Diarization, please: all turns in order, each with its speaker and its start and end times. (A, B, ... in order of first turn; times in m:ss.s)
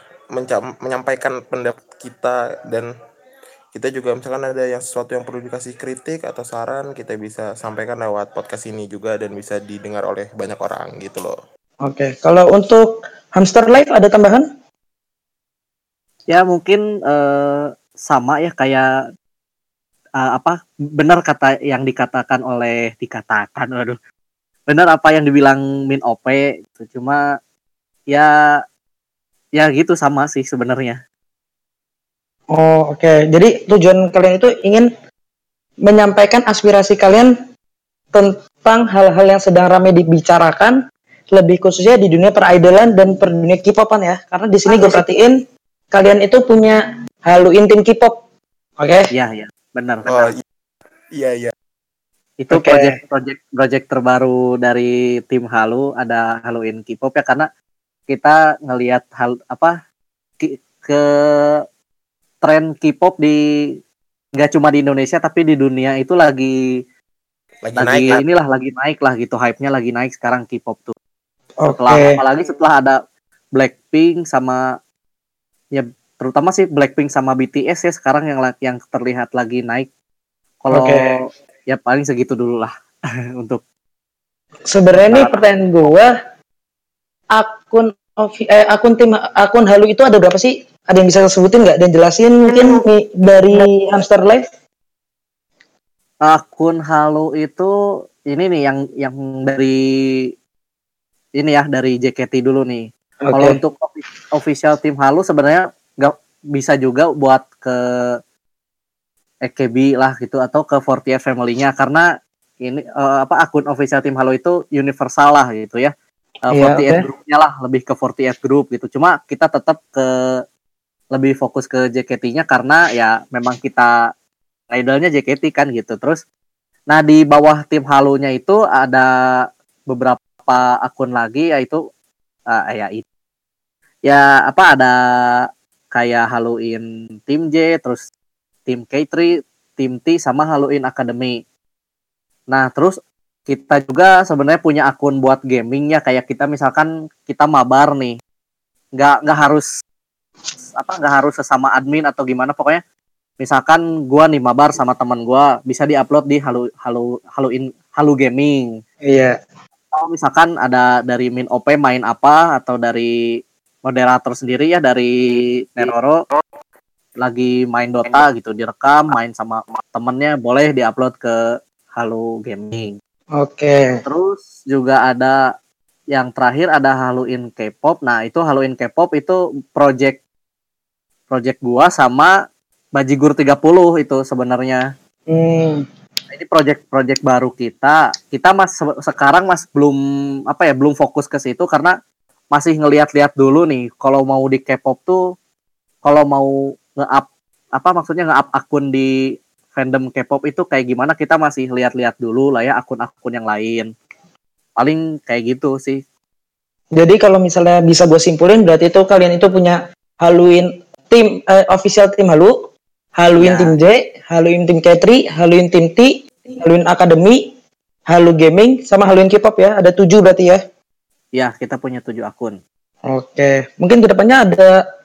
0:00.3-0:02.9 A
0:03.7-0:11.4 A
0:11.8-0:14.5 B
0:16.3-0:18.9 C
0:20.2-0:24.0 C
0:24.7-0:27.2 C
0:29.6-0:31.0 C
0:32.5-0:34.9 B
0:35.9-0:37.3 B
0:38.1-0:40.8 B
0:41.3-0:45.4 B
0:45.9-0:48.2 B
0:48.8-0:49.1 B
0:49.1-0:50.3 C
0:50.1-0:50.4 A
0:51.2-0:51.5 A
0:52.4-0:57.5 C
0:52.5-0:53.0 B
0:58.1-0:59.7 C
1:00.4-1:01.0 C
1:02.4-1:03.4 C
1:04.4-1:06.5 C
1:07.6-1:08.2 A
1:07.8-1:11.0 C
1:11.6-1:12.2 B
1:11.7-1:13.0 C
1:13.6-1:14.6 C
1:15.7-1:19.9 C
1:20.6-1:22.7 C
1:20.7-1:21.1 B
1:24.7-1:26.1 B
1:25.0-1:25.4 C
1:27.4-1:34.4 B
1:36.2-1:37.7 C
1:38.3-1:39.8 C
1:41.4-1:47.8 C
1:43.2-1:43.6 B
1:49.5-1:52.1 C
1:52.6-1:55.9 C
1:56.5-2:00.1 C
1:56.5-1:57.0 B
2:01.2-2:03.9 C
2:04.7-2:06.2 C
2:06.9-2:09.1 C
2:09.9-2:11.8 C
2:12.5-2:13.0 C
2:14.1-2:15.0 C
2:16.0-2:18.0 C
2:18.7-2:21.4 C
2:22.5-2:23.0 C
2:23.5-2:28.2 C
2:29.0-2:29.6 C
2:30.8-2:32.8 C
2:33.4-2:38.7 C
2:39.1-2:39.4 B
2:39.9-2:43.1 C
2:43.8-2:45.1 C
2:45.7-2:46.2 C
2:47.2-2:51.3 C
2:52.0-2:53.0 C
2:53.4-2:54.0 B
2:54.0-2:55.4 C
2:56.1-3:00.2 C
3:01.3-3:02.3 C
3:03.0-3:04.8 C
3:05.3-3:05.8 B
3:06.3-3:10.0 C
3:10.5-3:12.0 C
3:12.5-3:15.2 C
3:16.0-3:19.1 C
3:19.7-3:23.9 C
3:24.8-3:26.0 C
3:27.0-3:32.6 B
3:33.2-3:37.5 B
3:33.4-3:33.8 C
3:38.1-3:40.6 B
3:41.4-3:42.6 C
3:43.1-3:44.8 B